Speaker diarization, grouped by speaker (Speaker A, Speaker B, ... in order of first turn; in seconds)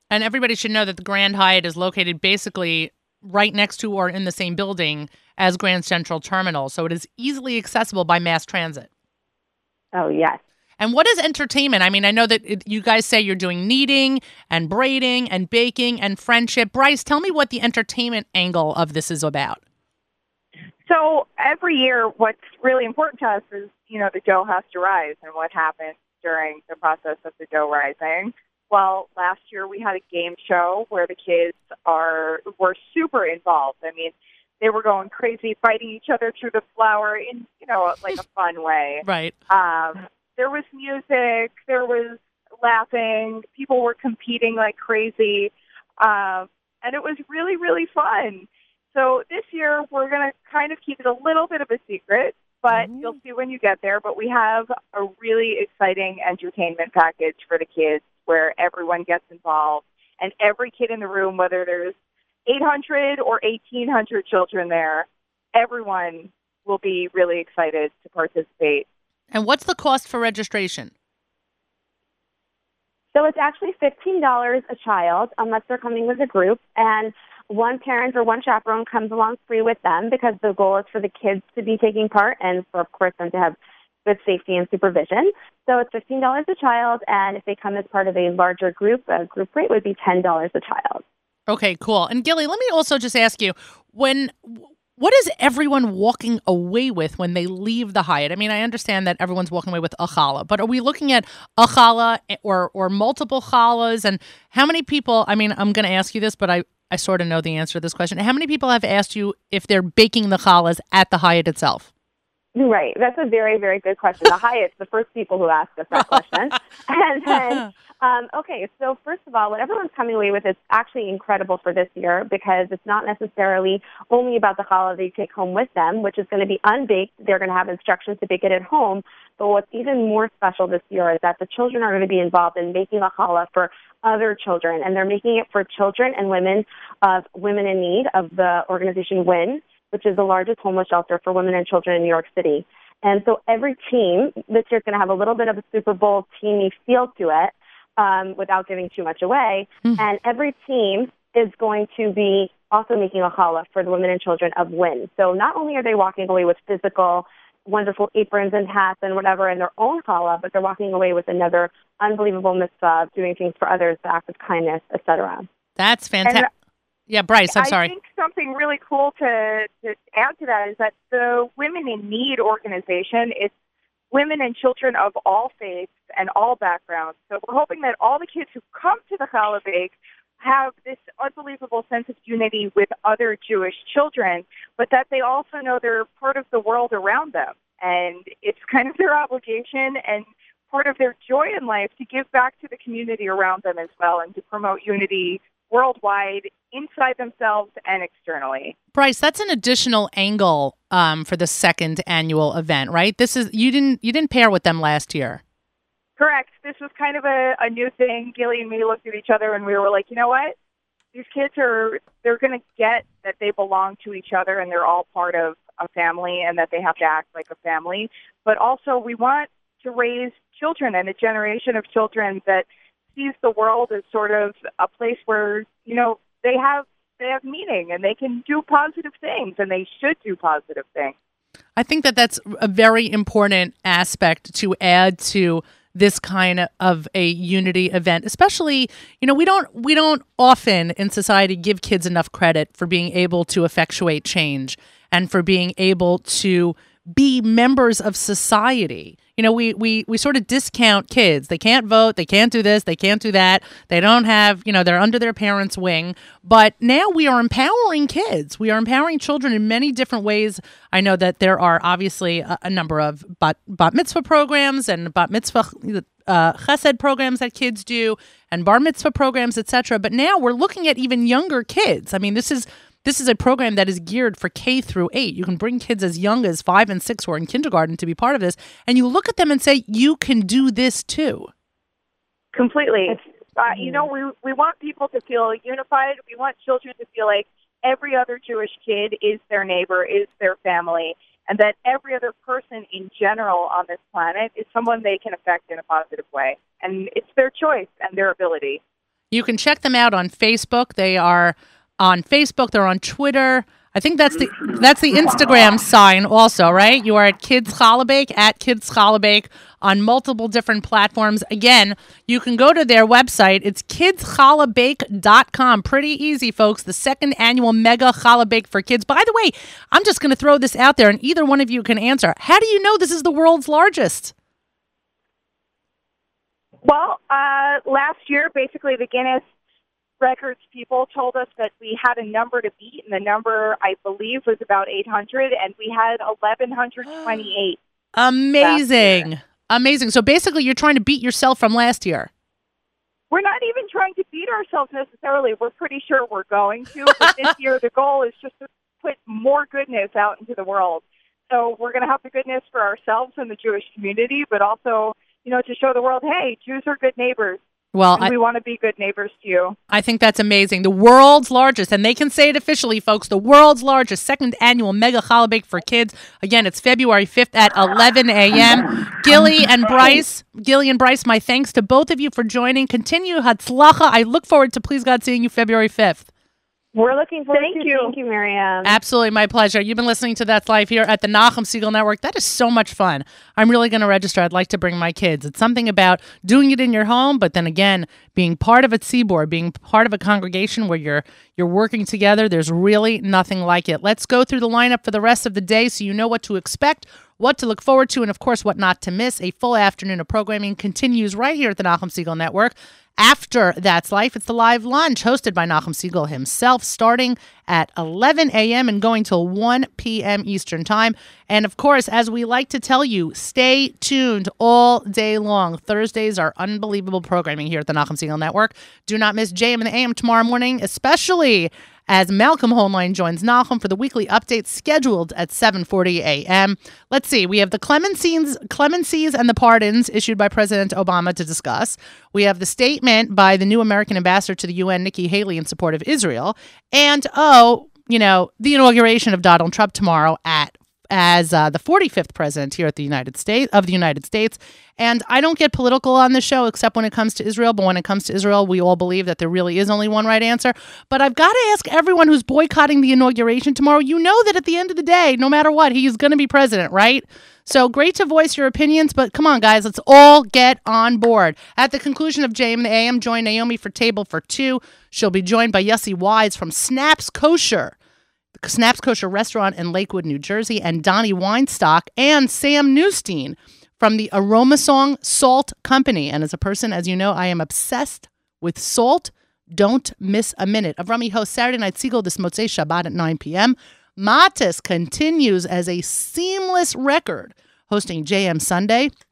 Speaker A: 0.1-8.9, 10.8-19.6, 39.0-39.3, 52.7-53.1, 69.3-70.9, 91.5-111.9, 116.0-116.2, 117.3-117.6, 165.8-166.5, 167.1-167.9, 198.9-205.4, 231.8-281.5, 299.3-324.3, 338.1-342.3, 357.9-358.3, 359.9-376.3, 378.8-467.9, 468.5-489.1
Speaker B: 9.9-10.4, 73.1-91.0, 112.5-165.5, 376.9-379.0
Speaker C: 20.9-61.9, 62.5-68.8, 167.5-173.5, 174.1-198.8, 206.2-210.5, 211.1-231.1, 282.5-298.8, 326.8-329.4, 330.2-337.8, 338.6-339.2, 343.3-357.6, 358.1-359.8, 377.5-378.1